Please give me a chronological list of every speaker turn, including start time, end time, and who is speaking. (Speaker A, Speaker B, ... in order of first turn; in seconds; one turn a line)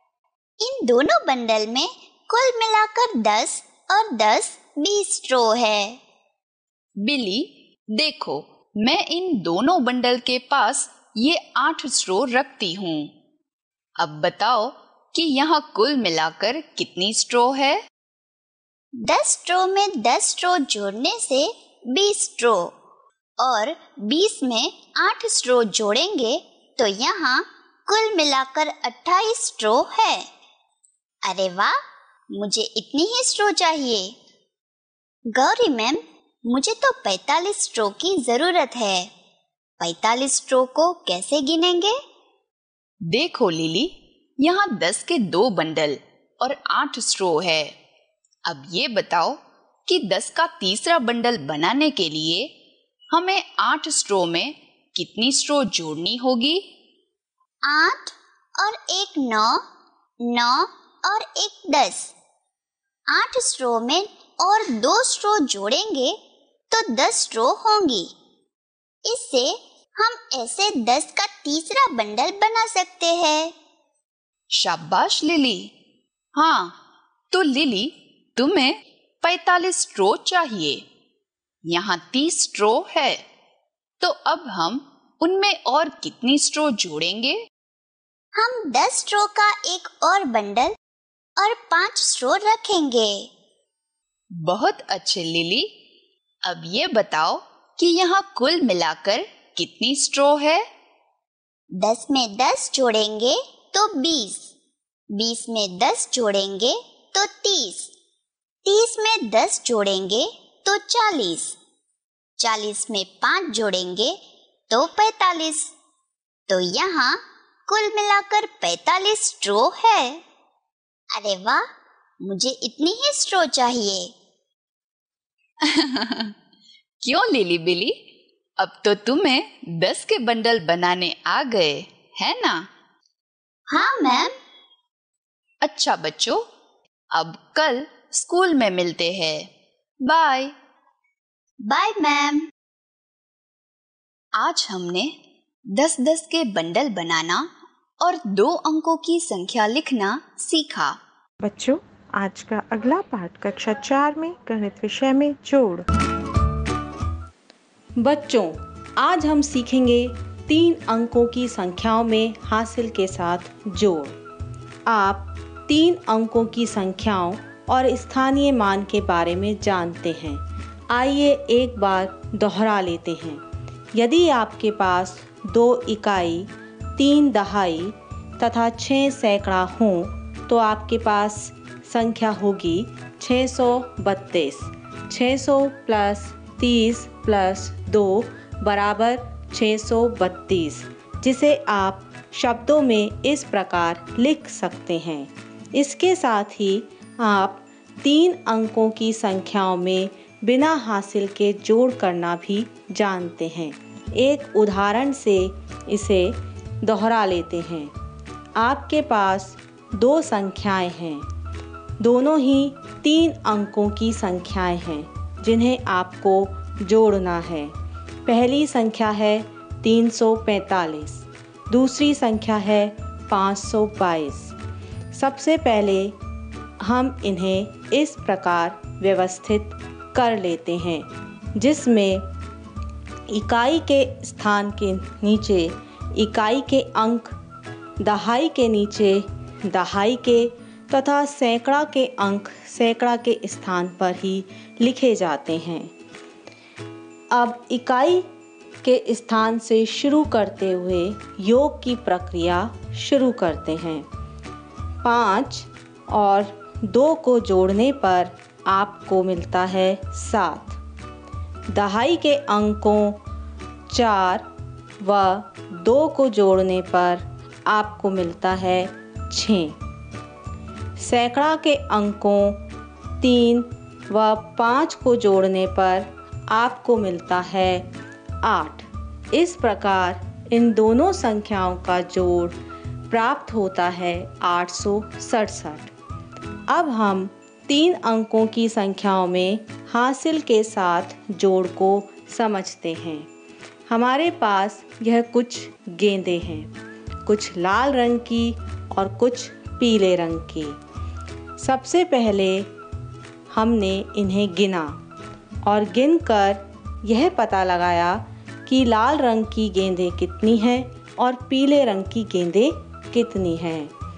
Speaker A: 0.6-6.0
Speaker B: 7.0-13.1
Speaker B: 14.0-17.8
Speaker A: 19.0-22.7
Speaker A: 23.4-30.3
Speaker A: 31.2-31.8
Speaker A: 32.3-34.1
Speaker A: 35.3-39.1
Speaker A: 39.8-42.0
Speaker B: 43.1-47.7
Speaker B: 48.5-52.5
Speaker B: 53.1-56.7
Speaker A: 57.6-59.6
Speaker A: 60.2-62.1
Speaker A: 63.1-66.2
Speaker A: 66.7-68.1
Speaker A: 69.0-73.5
Speaker B: 74.5-75.7
Speaker B: 76.3-76.8
Speaker B: 77.3-80.8
Speaker B: 81.7-83.2
Speaker B: 84.0-87.4
Speaker A: 88.3-90.7
Speaker A: 91.4-93.3
Speaker B: 94.4-95.7
Speaker B: 96.4-100.7
Speaker A: 101.8-104.5
Speaker A: 105.1-107.9
Speaker A: 108.6-111.6
Speaker A: 112.4-114.2
Speaker A: 114.7-115.7
Speaker A: 116.5-120.2
Speaker A: 121.1-121.6
Speaker A: 122.2-124.1
Speaker B: 125.6-126.3
Speaker B: 127.0-132.7
Speaker A: 133.7-134.3
Speaker B: 135.6-136.4
Speaker B: 137.1-139.5
Speaker B: 140.0-140.5
Speaker A: 141.6-142.5
Speaker B: 144.4-145.1
Speaker B: 145.7-151.0
Speaker C: 151.4-155.8
Speaker D: 158.0-164.2
Speaker D: 164.9-173.4
Speaker D: 173.9-207.9
Speaker D: 208.6-211.3
Speaker D: 212.0-217.7
Speaker D: 218.2-224.5
Speaker D: 225.1-226.2
Speaker D: 226.8-232.2
Speaker D: 233.3-237.3
Speaker D: 238.0-245.9
Speaker D: 247.3-248.2
Speaker D: 248.8-254.1
Speaker D: 255.0-260.8
Speaker D: 261.7-263.2
Speaker D: 263.9-264.4
Speaker D: 265.0-269.8
Speaker D: 271.0-272.6
Speaker D: 273.2-277.9
Speaker D: 278.4-282.6
Speaker D: 283.1-285.9
Speaker D: 286.7-293.3
Speaker D: 293.9-296.7
Speaker D: 297.2-300.8
Speaker D: 301.6-302.7
Speaker D: 303.5-305.0
Speaker D: 305.6-313.9